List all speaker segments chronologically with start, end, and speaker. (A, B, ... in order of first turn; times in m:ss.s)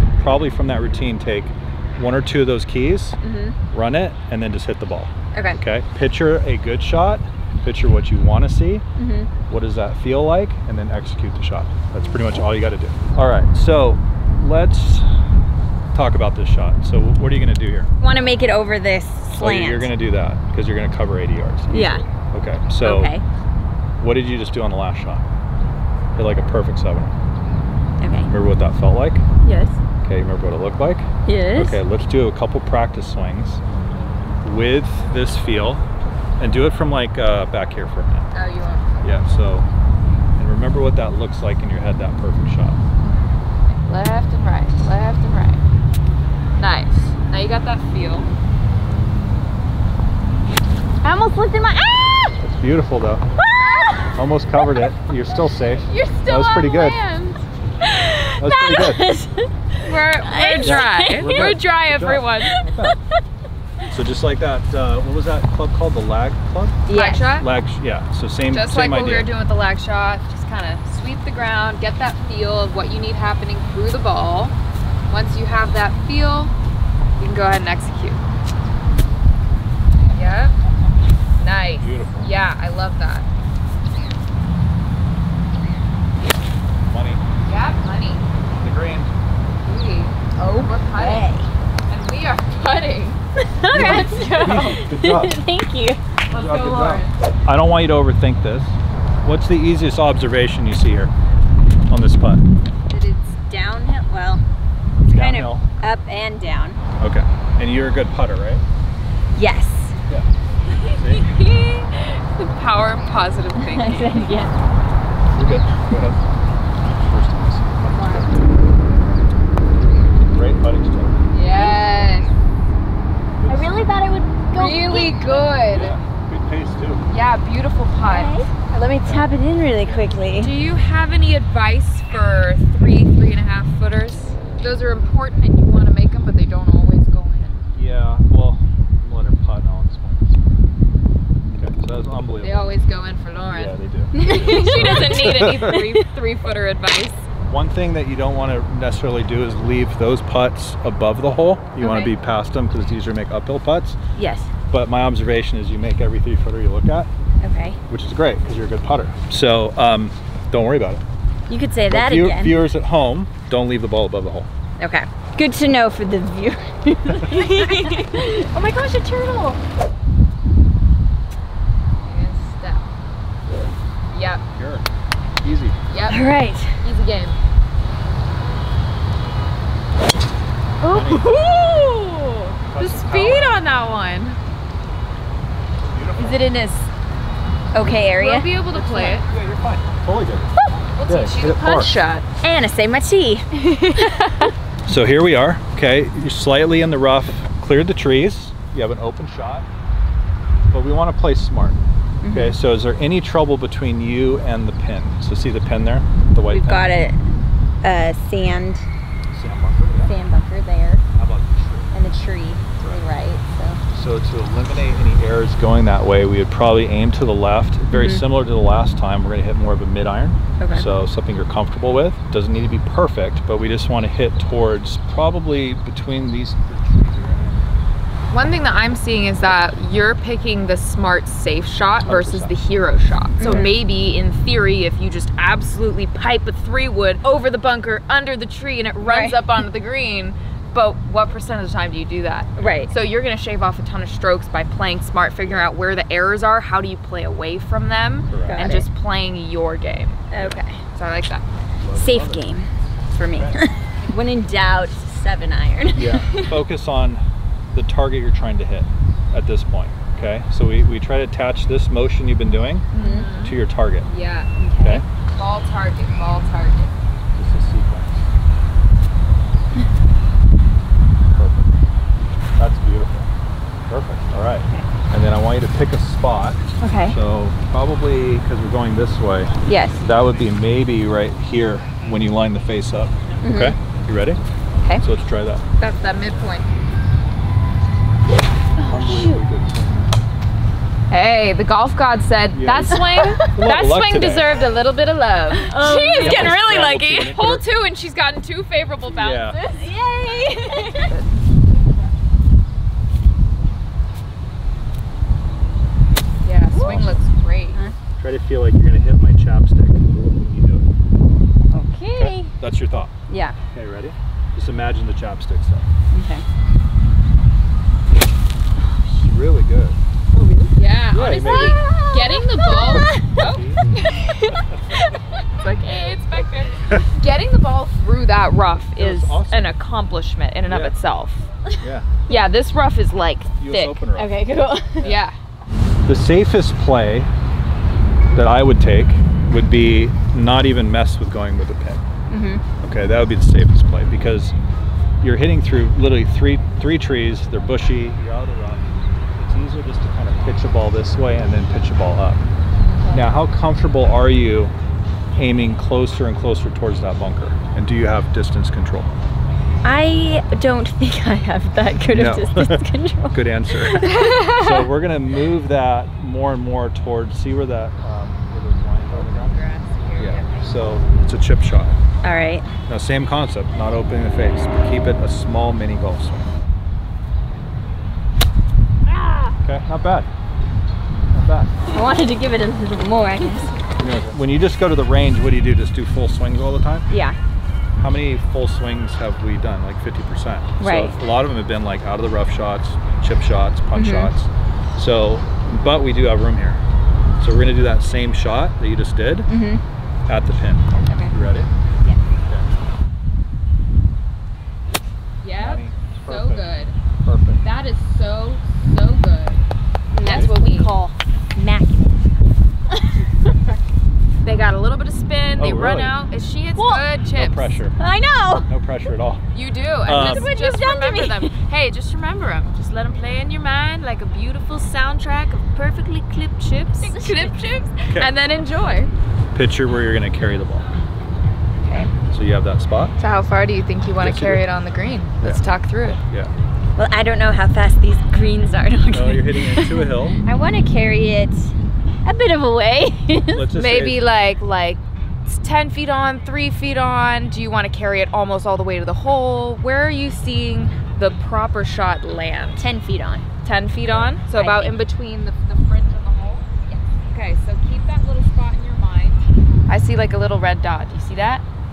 0:00.2-0:03.2 A
0:03.2-0:03.6 B
0:03.7-0:08.8 A
0:05.3-0:05.6 B
0:09.0-0:09.3 B
0:09.5-0:15.1 A
0:15.9-0:17.9 A
0:18.0-0:19.9 B
0:19.3-0:23.2 A
0:21.7-0:22.0 B
0:22.8-0:23.2 B
0:24.0-0:25.3 A
0:26.2-0:27.2 A
0:28.0-0:28.3 B
0:28.3-0:29.2 A
0:29.4-0:29.8 B
0:30.0-0:33.6 A
0:31.3-0:31.8 B
0:34.4-0:35.8 A
0:36.4-0:38.3 A
0:38.3-0:39.1 C
0:39.0-0:39.7 A
0:40.4-0:42.8 A
0:43.8-0:45.6 C
0:46.6-0:48.3 C
0:51.0-0:52.4 B
0:52.4-0:53.2 A
0:53.4-0:54.9 B
0:54.2-0:57.0 A
0:55.9-0:57.4 C
0:57.8-1:01.6 B
0:58.4-0:59.1 A
0:59.8-1:02.5 C
1:00.6-1:03.0 A
1:02.4-1:03.0 B
1:03.9-1:06.8 A
1:06.9-1:07.3 B
1:06.9-1:07.5 C
1:07.4-1:09.3 A
1:08.5-1:14.6 C
1:15.1-1:16.5 C
1:17.2-1:18.2 C
1:20.1-1:20.5 C
1:21.4-1:23.3 C
1:21.8-1:22.3 A
1:26.9-1:27.2 A
1:27.4-1:28.2 C
1:28.6-1:29.1 A
1:29.6-1:31.3 C
1:30.4-1:31.5 B
1:31.9-1:33.2 C
1:33.6-1:36.0 B
1:33.7-1:34.8 C
1:33.7-1:35.4 A
1:36.3-1:37.1 C
1:36.3-1:41.1 A
1:41.9-1:42.4 A
1:42.9-1:44.4 B
1:45.0-1:45.7 A
1:45.1-1:46.8 B
1:47.0-1:48.6 A
1:49.4-1:50.0 B
1:50.7-1:54.3 C
1:51.0-1:51.3 A
1:53.6-1:54.6 B
1:55.3-1:56.2 A
1:56.8-1:58.3 A
1:57.9-1:58.3 B
2:00.2-2:01.3 A
2:01.3-2:02.3 C
2:01.5-2:02.3 B
2:03.4-2:03.8 A
2:03.5-2:05.5 B
2:04.5-2:06.0 C
2:05.7-2:07.1 A
2:07.1-2:08.4 C
2:08.0-2:10.6 B
2:09.0-2:09.3 A
2:10.4-2:17.6 C
2:17.7-2:20.4 A
2:21.5-2:22.7 A
2:22.4-2:27.2 C
2:23.5-2:25.8 A
2:24.1-2:26.0 B
2:27.5-2:34.0 A
2:31.8-2:32.1 B
2:34.2-2:34.5 B
2:34.7-2:37.1 A
2:37.4-2:37.8 B
2:37.9-2:41.0 A
2:41.5-2:42.7 B
2:41.9-2:44.5 A
2:44.8-2:48.5 B
2:47.2-2:49.6 C
2:52.0-2:52.9 C
2:54.1-2:54.4 C
2:54.6-2:54.9 A
2:55.4-2:55.8 A
2:55.9-2:56.3 C
2:56.1-2:56.8 B
2:56.8-2:57.4 C
3:00.9-3:01.4 A
3:00.9-3:04.4 C
3:02.6-3:03.5 A
3:05.8-3:06.4 A
3:06.2-3:06.6 B
3:06.2-3:06.9 C
3:07.7-3:09.0 B
3:08.2-3:09.3 C
3:08.7-3:10.5 A
3:11.0-3:12.3 C
3:11.1-3:12.0 A
3:12.4-3:13.5 B
3:13.6-3:14.5 C
3:14.9-3:19.7 A
3:20.7-3:26.9 A
3:22.2-3:22.6 B
3:26.5-3:27.3 B
3:27.8-3:28.9 B
3:29.3-3:30.1 A
3:30.0-3:31.0 B
3:31.2-3:31.9 A
3:31.9-3:33.8 B
3:33.9-3:47.6 A
3:37.9-3:38.2 B
3:40.6-3:40.9 B
3:48.3-4:10.2 C
3:52.0-3:52.6 A
3:53.4-3:53.8 B
3:59.0-3:59.4 B
4:02.6-4:02.9 B
4:08.3-4:08.7 A
4:08.4-4:08.9 B
4:10.3-4:10.8 B
4:10.9-4:11.5 C
4:11.8-4:12.4 A
4:11.9-4:16.4 B
4:13.3-4:13.6 A
4:15.9-4:24.1 A
4:22.9-4:23.3 B
4:23.0-4:23.6 C
4:24.1-4:24.5 C
4:24.6-4:25.0 B
4:25.4-4:27.0 C
4:27.3-4:28.2 A
4:31.3-4:31.7 A
4:32.6-4:33.3 A
4:33.9-4:39.5 A
4:36.8-4:37.2 B
4:39.7-4:40.1 B
4:40.0-4:44.4 A
4:43.4-4:43.8 B
4:45.0-4:45.6 A
4:45.8-4:46.7 C
4:48.8-4:49.4 B
4:48.8-4:50.1 A
4:51.1-4:59.7 C
4:52.5-4:54.6 A
4:52.9-4:53.5 B
4:55.6-4:56.6 B
4:56.1-4:57.6 A
4:59.1-4:59.6 A
4:59.6-5:01.2 B
5:00.8-5:01.3 C
5:06.4-5:07.8 C
5:06.7-5:07.0 B
5:06.8-5:07.2 A
5:08.2-5:10.9 A
5:11.7-5:12.5 B
5:12.2-5:13.1 A
5:13.3-5:13.6 B
5:13.7-5:15.9 A
5:16.1-5:16.4 B
5:18.8-5:19.3 B
5:19.2-5:20.0 A
5:20.3-5:20.7 B
5:20.8-5:24.2 C
5:21.1-5:21.8 A
5:21.4-5:23.4 B
5:23.4-5:23.9 A
5:24.0-5:25.0 B
5:24.5-5:25.0 A
5:25.6-5:31.5 C
5:29.0-5:29.7 A
5:30.7-5:31.0 A
5:31.8-5:32.1 A
5:32.3-5:34.1 C
5:33.6-5:34.4 A
5:34.1-5:35.1 B
5:35.0-5:35.3 A
5:35.0-5:35.4 C
5:36.1-5:37.3 A
5:38.3-5:42.0 A
5:42.3-5:42.6 B
5:42.8-5:44.6 A
5:45.2-5:52.4 A
5:53.0-5:53.2 B
5:53.1-5:54.7 A
5:55.4-5:59.1 A
5:59.8-6:04.4 B
6:02.1-6:09.6 A
6:04.0-6:04.9 C
6:09.1-6:11.0 B
6:10.2-6:12.0 A
6:12.2-6:12.7 B
6:12.9-6:16.5 A
6:19.1-6:19.6 B
6:19.6-6:20.3 A
6:21.3-6:21.8 A
6:21.9-6:23.7 B
6:24.0-6:27.1 A
6:27.1-6:27.4 B
6:28.0-6:36.8 A
6:30.8-6:31.2 B
6:33.9-6:34.3 B
6:37.4-6:39.5 A
6:39.5-6:39.8 B
6:40.3-6:41.7 A
6:41.0-6:41.3 B
6:42.4-6:42.7 A
6:45.4-6:47.0 C
6:45.6-6:46.6 A
6:47.2-6:47.6 A
6:47.6-6:49.6 C
6:50.1-6:53.2 B
6:50.2-6:50.9 C
6:50.2-6:50.5 A
6:54.4-6:57.8 C
6:55.6-6:56.2 A
6:56.8-6:57.0 B
6:57.4-6:58.0 A
6:58.0-6:58.7 B
6:58.7-6:59.4 A
6:59.5-7:09.1 C
7:00.1-7:00.5 A
7:00.1-7:01.5 B
7:07.0-7:07.5 B
7:09.5-7:10.9 A
7:11.8-7:12.1 B
7:12.3-7:13.2 A
7:13.2-7:16.2 C
7:14.2-7:14.7 A
7:17.0-7:23.7 B
7:19.1-7:20.4 A
7:23.5-7:24.2 A
7:23.7-7:32.9 C
7:32.8-7:33.5 B
7:33.6-7:36.7 C
7:34.1-7:34.4 A
7:34.6-7:35.0 B
7:37.3-7:41.6 C